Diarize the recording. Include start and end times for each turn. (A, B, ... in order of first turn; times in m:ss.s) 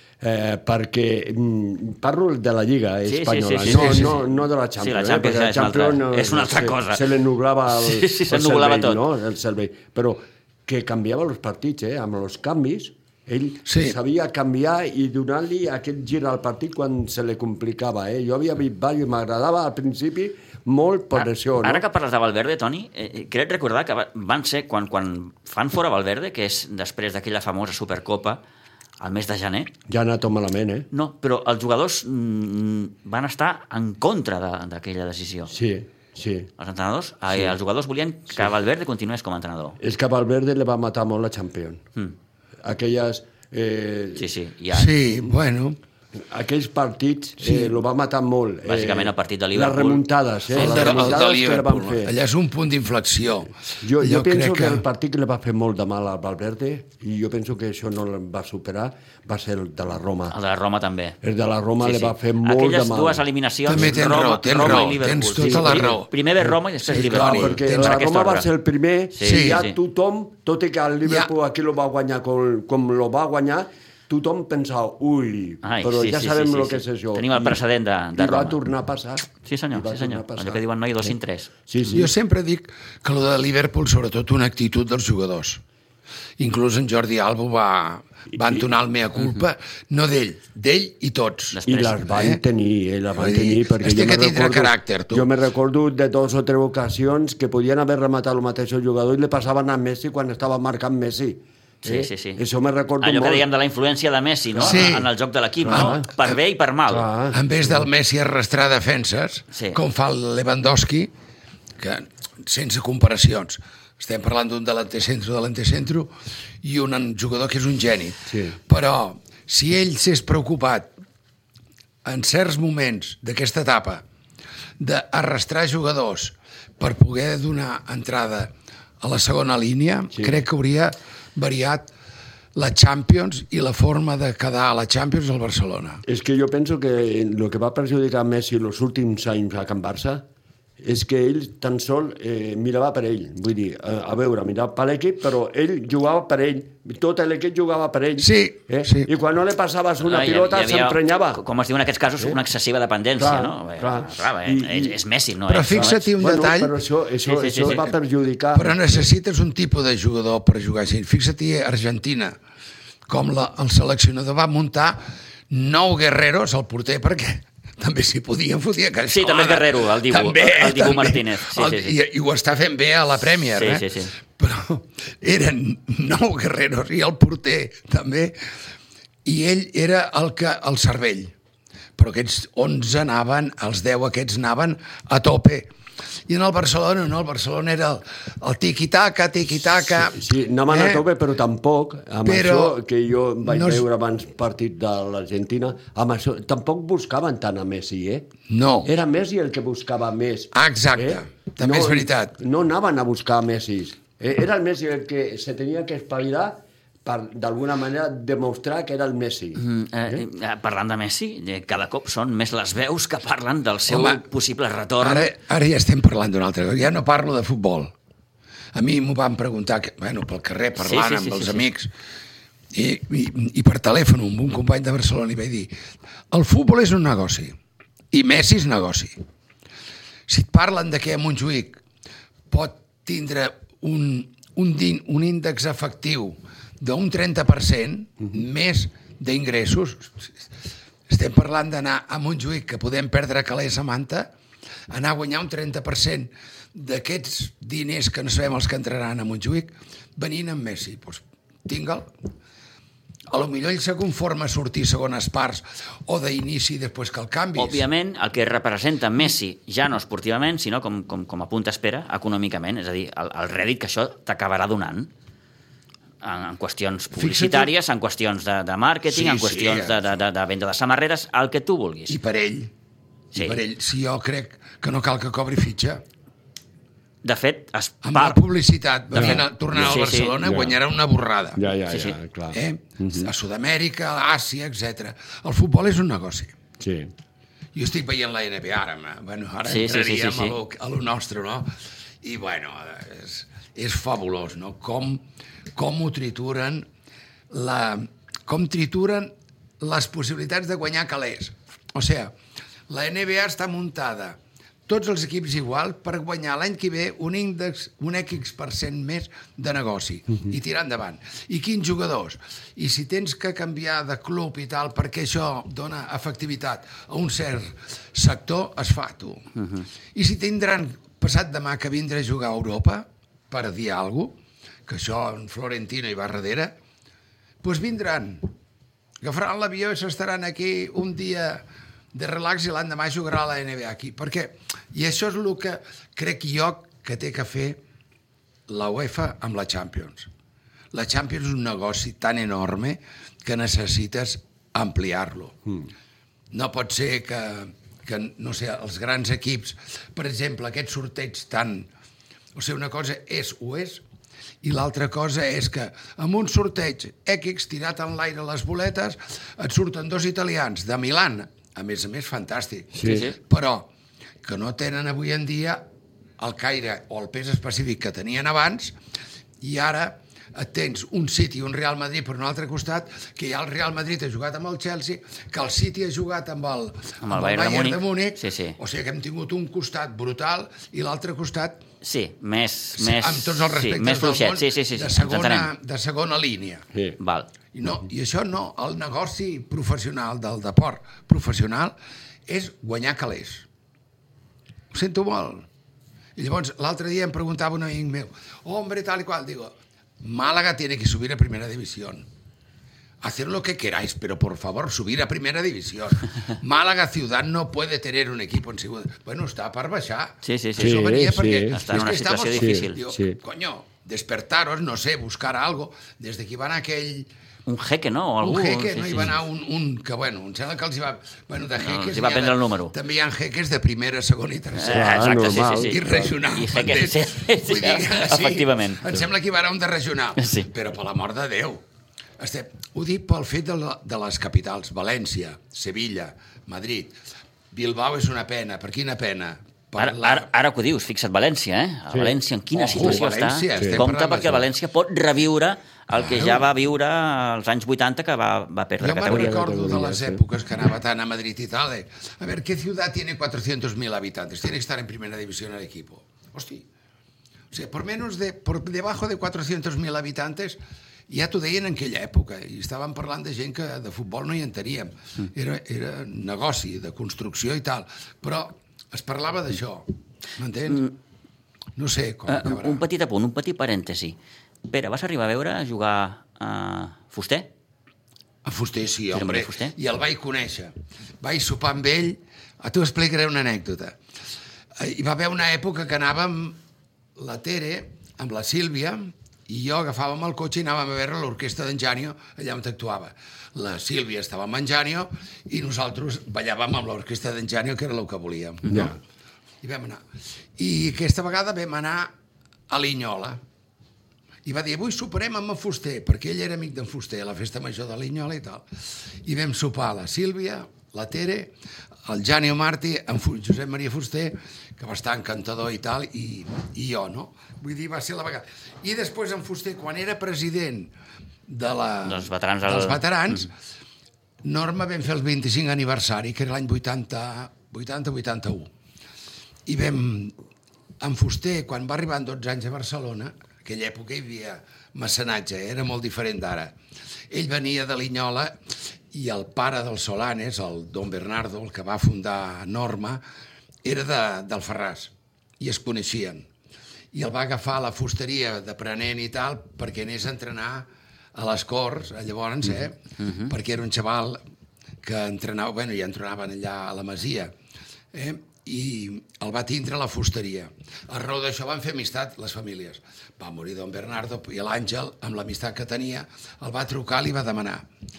0:00.2-0:21.8 A
0:03.0-0:04.2 B
0:03.6-0:04.1 C
0:04.8-0:07.0 B
0:07.7-0:09.0 B
0:13.6-0:14.0 C
0:21.1-0:28.4 B
0:29.0-0:29.7 B
0:29.9-0:30.9 A
0:30.9-0:35.5 B
0:35.5-0:36.5 A
0:36.6-0:39.8 B
0:39.8-0:41.8 A
0:42.6-0:44.3 A
0:44.2-0:44.9 B
0:44.7-0:45.8 C
0:46.2-0:52.1 A
0:47.4-0:47.8 C
0:48.6-0:51.2 B
0:50.5-0:54.8 C
0:53.8-1:00.4 A
1:00.3-1:01.2 B
1:01.2-1:04.0 A
1:01.8-1:08.5 B
1:03.6-1:06.1 C
1:05.3-1:17.6 A
1:06.8-1:08.0 C
1:09.1-1:09.8 B
1:09.2-1:09.6 C
1:11.0-1:11.3 C
1:15.6-1:18.6 B
1:18.1-1:21.1 A
1:19.4-1:21.5 B
1:21.7-1:22.1 A
1:21.9-1:25.6 C
1:26.4-1:31.6 C
1:31.5-1:32.1 B
1:31.6-1:43.4 A
1:32.1-1:32.4 C
1:33.1-1:35.3 C
1:41.8-1:42.4 B
1:43.0-1:47.1 B
1:44.6-1:44.9 A
1:44.6-1:45.1 C
1:45.6-1:46.0 A
1:45.7-1:46.4 C
1:46.9-1:47.8 A
1:47.3-1:51.1 C
1:49.5-1:49.8 B
1:51.8-1:56.1 C
1:56.6-2:00.9 C
1:58.3-1:58.6 A
2:02.0-2:04.0 C
2:04.8-2:11.9 C
2:10.1-2:10.4 A
2:12.5-2:16.0 C
2:16.0-2:20.2 A
2:20.8-2:31.4 A
2:28.2-2:29.1 C
2:30.0-2:36.0 B
2:33.2-2:35.0 A
2:35.5-2:36.7 C
2:35.7-2:39.0 A
2:37.2-2:37.8 B
2:38.5-2:42.4 C
2:43.1-2:58.4 C
2:49.1-2:51.9 B
2:53.5-2:54.1 B
2:59.2-3:01.3 C
3:02.0-3:05.7 C
3:06.3-3:11.0 C
3:10.0-3:18.3 A
3:12.2-3:12.8 C
3:13.4-3:13.8 C
3:18.5-3:18.9 C
3:18.8-3:30.2 A
3:20.5-3:22.4 C
3:29.6-3:35.3 B
3:33.9-3:34.2 C
3:35.0-3:37.9 C
3:38.7-3:41.9 C
3:40.8-3:41.6 B
3:42.7-3:45.7 C
3:46.3-3:47.5 C
3:48.1-3:49.2 C
3:50.3-3:51.8 C
3:52.5-4:00.3 C
4:01.1-4:04.3 C
4:04.9-4:12.1 C
4:13.3-4:17.8 C
4:17.6-4:25.1 B
4:26.2-4:32.2 B
4:27.1-4:27.7 C
4:29.1-4:30.1 C
4:32.1-4:32.7 C
4:33.4-4:36.0 C
4:37.2-4:38.4 B
4:38.0-4:41.6 C
4:39.1-4:40.8 A
4:39.2-4:40.3 B
4:41.6-4:43.3 A
4:41.9-4:42.2 B
4:42.5-4:46.5 C
4:46.8-4:47.1 A
4:47.7-4:55.2 C
4:49.6-4:50.6 B
4:55.7-4:56.8 C
4:57.5-5:02.3 C
5:02.9-5:19.5 C
5:20.1-5:24.4 C
5:24.9-5:26.7 C
5:27.6-5:28.5 C
5:29.2-5:37.8 C
5:38.7-5:40.3 C
5:40.9-5:45.6 C
5:46.5-5:51.9 C
5:52.6-5:54.0 C
5:54.6-6:03.9 C
6:02.9-6:03.3 A
6:03.0-6:03.3 B
6:04.4-6:05.8 C
6:06.4-6:08.9 C
6:09.6-6:21.8 C
6:17.2-6:18.8 B
6:22.0-6:25.7 B
6:23.0-6:26.8 C
6:26.9-6:27.2 A
6:27.2-6:27.5 B
6:27.7-6:31.9 C
6:32.5-6:33.6 C
6:34.9-6:35.7 C
6:36.4-6:42.3 C
6:43.2-6:57.3 C
6:50.4-6:51.0 B
6:50.8-6:53.4 A
6:51.7-6:53.0 B
6:57.6-6:59.4 B
6:58.4-7:11.8 C
7:01.8-7:02.9 B
7:04.8-7:09.0 B
7:04.8-7:06.3 A
7:10.4-7:10.7 B
7:12.4-7:17.2 C
7:17.7-7:20.5 C
7:20.0-7:29.5 B
7:22.1-7:22.4 A
7:22.7-7:24.6 C
7:22.9-7:23.2 A
7:23.7-7:24.0 A
7:26.2-7:26.7 C
7:29.0-7:36.8 C
7:29.3-7:30.4 A
7:37.7-7:51.1 C
7:52.0-7:53.0 C
7:52.5-7:57.7 B
7:58.6-8:04.2 C
7:59.3-7:59.9 B
8:05.0-8:06.8 C
8:07.4-8:19.1 C
8:18.9-8:19.2 A
8:19.8-8:20.2 C
8:20.8-8:22.3 C
8:22.9-8:23.6 C
8:24.6-8:28.8 C
8:29.4-8:31.7 C
8:32.2-8:41.1 C
8:41.7-8:43.7 C
8:42.2-8:43.6 B
8:44.6-8:48.9 C
8:49.8-8:50.5 C
8:51.2-8:56.9 C
8:57.5-8:58.8 C
8:59.3-9:03.4 C
9:04.0-9:06.7 C
9:07.3-9:14.6 C
9:13.4-9:13.7 B
9:15.2-9:17.7 C
9:18.3-9:28.1 C